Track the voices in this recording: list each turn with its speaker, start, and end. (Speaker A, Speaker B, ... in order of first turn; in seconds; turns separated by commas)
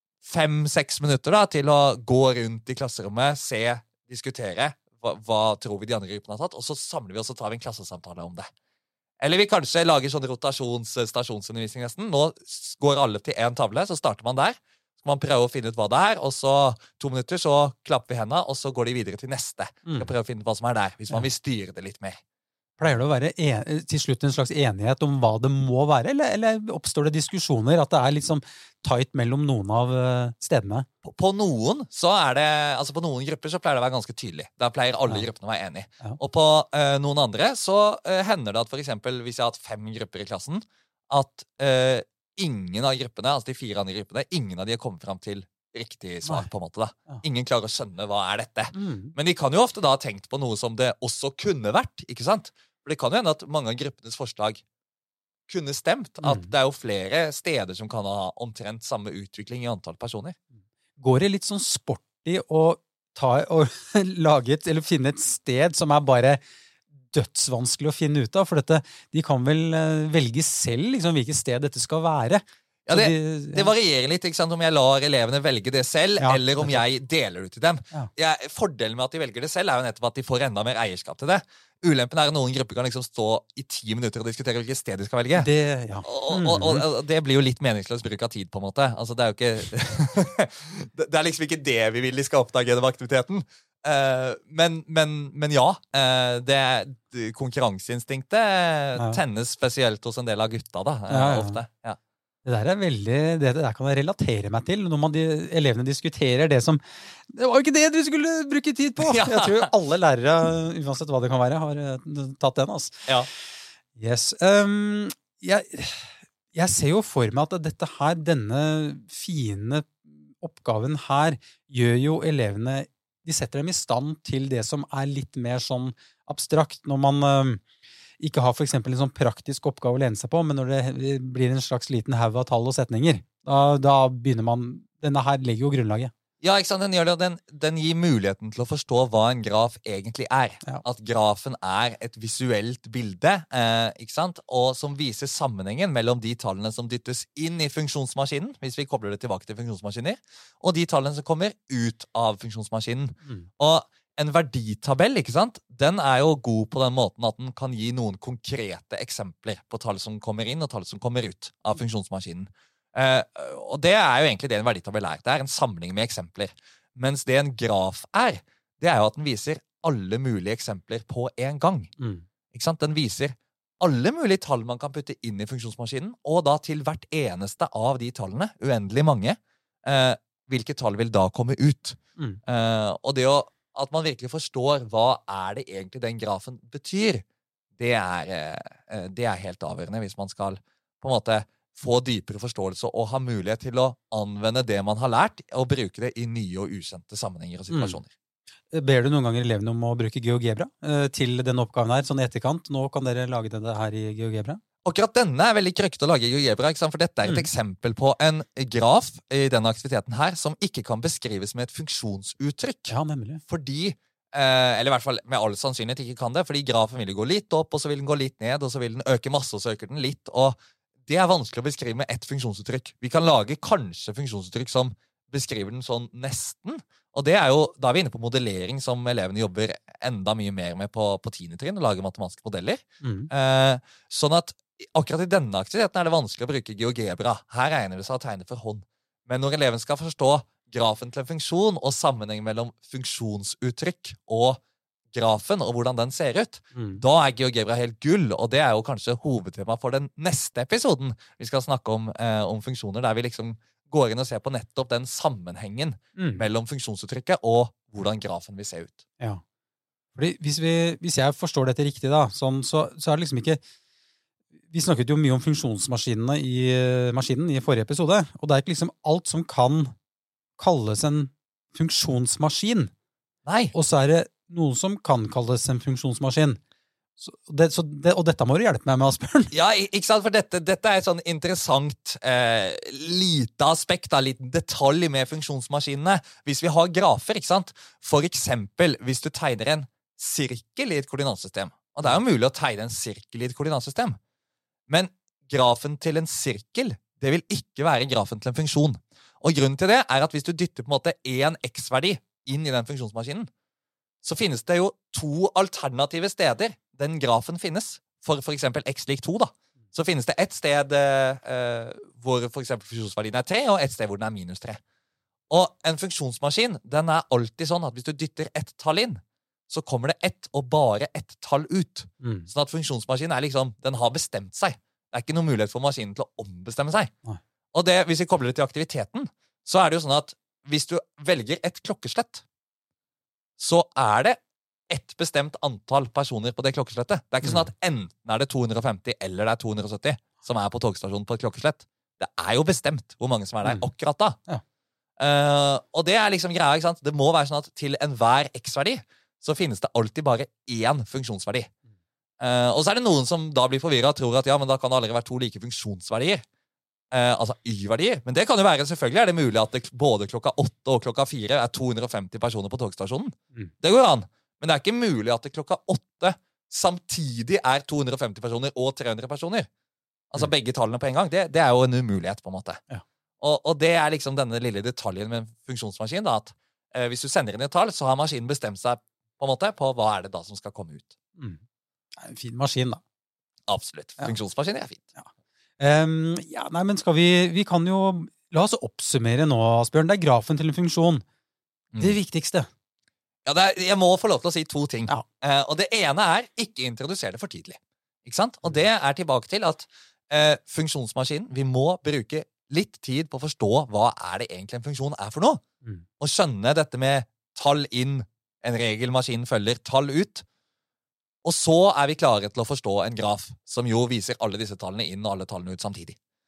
Speaker A: 0.2-8.5, Speaker A: 9.2-22.2, Speaker B: 22.8-30.9, Speaker A: 31.0-54.6, Speaker B: 48.7-49.1, Speaker A: 55.5-60.4, Speaker B: 56.2-56.5, Speaker B: 61.0-66.4, Speaker B: 67.1-73.7, Speaker A: 72.9-85.5, Speaker B: 76.2-76.8, Speaker B: 85.4-86.8, Speaker A: 86.0-102.0, Speaker B: 101.1-101.6, Speaker B: 102.5-113.1, Speaker A: 109.0-109.7, Speaker B: 114.0-127.6, Speaker B: 128.2-136.1, Speaker A: 136.4-171.9, Speaker B: 172.0-172.2, Speaker A: 172.5-187.2, Speaker A: 187.8-198.1, Speaker B: 197.7-198.0, Speaker B: 198.7-204.6, Speaker A: 204.8-213.0, Speaker B: 207.2-207.5, Speaker B: 212.9-213.4, Speaker A: 213.5-244.6, Speaker B: 233.0-233.3, Speaker A: 245.1-259.0, Speaker B: 246.7-247.0, Speaker B: 256.2-256.4, Speaker B: 260.1-263.6, Speaker B: 264.7-269.9, Speaker B: 270.6-272.9, Speaker A: 273.5-273.7, Speaker B: 273.7-276.6, Speaker B: 277.2-279.5, Speaker A: 279.5-294.2, Speaker A: 294.9-303.5, Speaker A: 304.2-314.8, Speaker A: 315.5-327.1, Speaker B: 322.2-322.5, Speaker A: 327.7-332.4, Speaker A: 333.6-334.4, Speaker A: 334.9-344.4, Speaker A: 345.2-351.7, Speaker A: 352.4-356.4, Speaker A: 357.1-369.7, Speaker A: 370.3-372.8, Speaker A: 373.4-381.1, Speaker B: 382.2-383.0, Speaker A: 383.7-385.0, Speaker B: 385.2-391.2, Speaker B: 392.0-392.7, Speaker A: 393.4-405.6, Speaker A: 406.2-410.4, Speaker A: 411.4-416.2